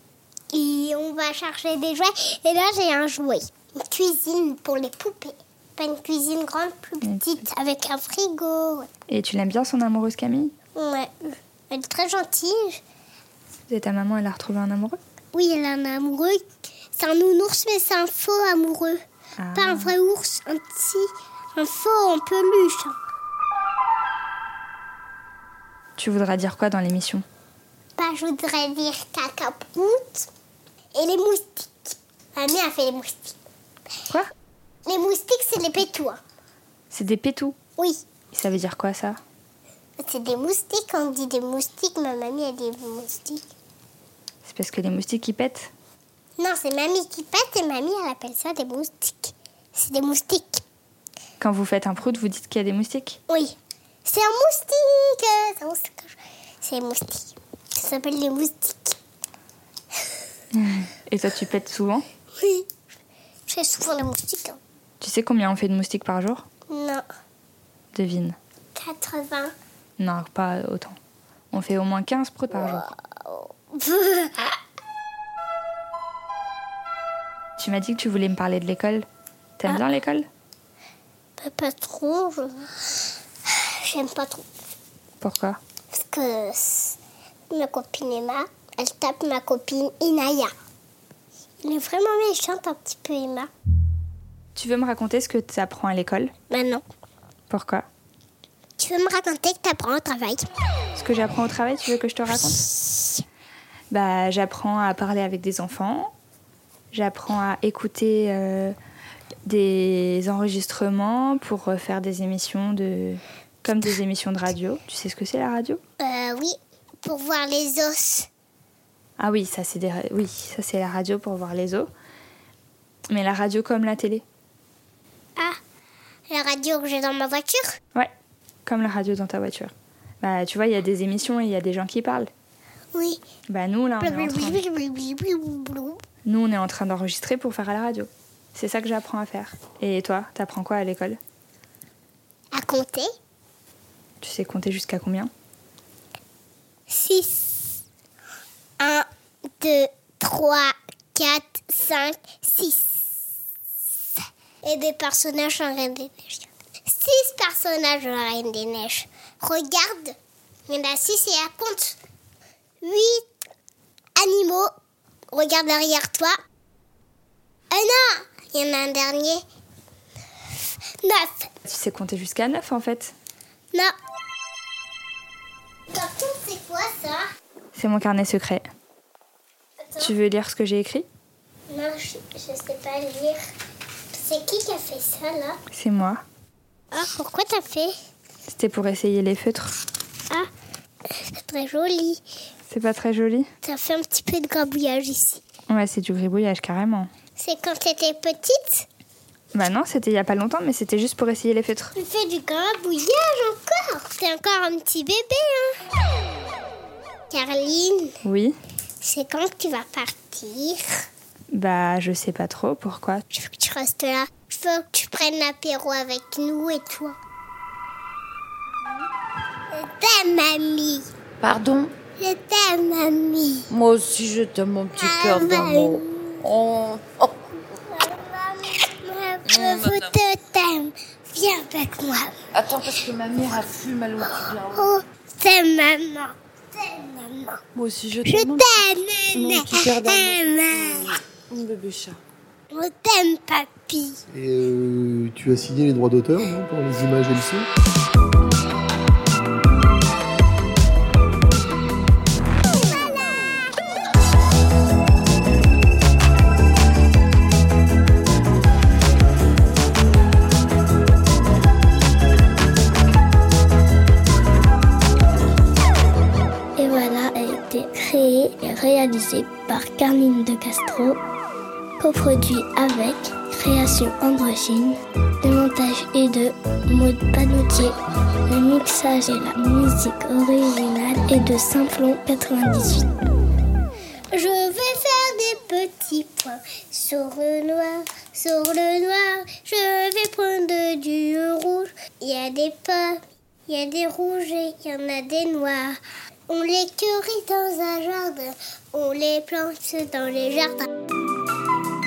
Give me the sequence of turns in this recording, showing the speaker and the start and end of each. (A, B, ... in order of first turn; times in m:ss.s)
0:00.5-0:08.9 A
0:07.0-0:07.4 B
0:09.1-0:10.5 B
0:10.8-0:12.8 A
0:13.7-0:15.0 B
0:15.3-0:16.4 A
0:17.0-0:19.0 A
0:19.4-0:19.9 B
0:19.5-0:23.0 A
0:26.0-0:27.2 B
0:28.0-0:30.3 A
0:30.9-0:33.4 A
0:34.8-0:36.2 A
0:36.9-0:37.6 B
0:38.3-0:39.2 B
0:40.0-0:43.4 A
0:44.4-0:45.7 B
0:46.4-0:50.6 A
0:51.4-0:53.2 B
0:53.3-0:59.0 A
1:00.5-1:02.0 B
1:02.4-1:02.7 A
1:03.5-1:04.6 A
1:05.0-1:06.4 B
1:06.7-1:07.0 A
1:07.9-1:08.4 B
1:08.7-1:09.5 A
1:10.0-1:11.0 B
1:11.5-1:12.9 B
1:12.5-1:14.6 A
1:17.6-1:19.0 B
1:19.6-1:20.3 B
1:21.4-1:24.4 A
1:25.2-1:25.6 B
1:25.9-1:27.0 A
1:27.5-1:30.5 A
1:31.6-1:33.5 A
1:34.5-1:36.3 B
1:36.5-1:36.8 A
1:37.5-1:37.8 B
1:38.8-1:40.4 A
1:40.9-1:42.6 B
1:43.9-1:46.1 B
1:46.9-1:48.7 B
1:49.4-1:55.8 B
1:56.0-1:58.3 A
1:59.2-2:01.9 B
2:03.1-2:04.2 B
2:06.3-2:07.8 A
2:08.6-2:12.3 B
2:12.9-2:13.2 A
2:13.5-2:14.6 B
2:14.0-2:16.0 A
2:16.2-2:21.2 B
2:22.5-2:23.1 A
2:24.2-2:25.3 B
2:26.9-2:27.7 A
2:28.8-2:29.1 A
2:29.6-2:33.0 A
2:34.6-2:40.2 A
2:40.7-2:42.0 A
2:42.8-2:43.3 A
2:44.2-2:44.7 A
2:45.3-2:46.4 A
2:47.7-2:49.4 A
2:51.0-2:51.5 A
2:51.6-2:53.1 B
2:55.9-2:57.2 A
2:57.7-2:58.6 B
2:59.8-3:00.1 A
3:00.0-3:01.0 B
3:01.7-3:03.4 A
3:04.1-3:05.6 A
3:05.7-3:06.2 B
3:06.9-3:07.9 A
3:08.5-3:09.7 B
3:11.1-3:12.2 A
3:12.7-3:13.5 B
3:13.6-3:15.4 A
3:15.7-3:17.1 B
3:17.4-3:18.9 A
3:19.5-3:21.9 B
3:22.0-3:25.8 A
3:27.3-3:28.2 A
3:28.2-3:28.6 B
3:29.0-3:30.9 A
3:31.5-3:33.2 B
3:33.3-3:37.2 A
3:39.7-3:41.1 A
3:41.4-3:41.9 C
3:42.2-3:43.7 A
3:43.7-3:47.3 C
3:44.9-3:46.4 A
3:47.6-3:52.4 A
3:49.4-3:50.1 C
3:52.5-3:54.9 C
3:54.2-3:57.6 A
3:57.7-3:58.8 C
3:58.2-4:01.2 A
3:59.3-4:02.2 C
4:02.7-4:04.2 A
4:04.3-4:07.7 D
4:26.8-4:31.2 E
4:32.0-4:37.9 E
4:38.5-4:43.1 E
4:44.3-5:00.9 A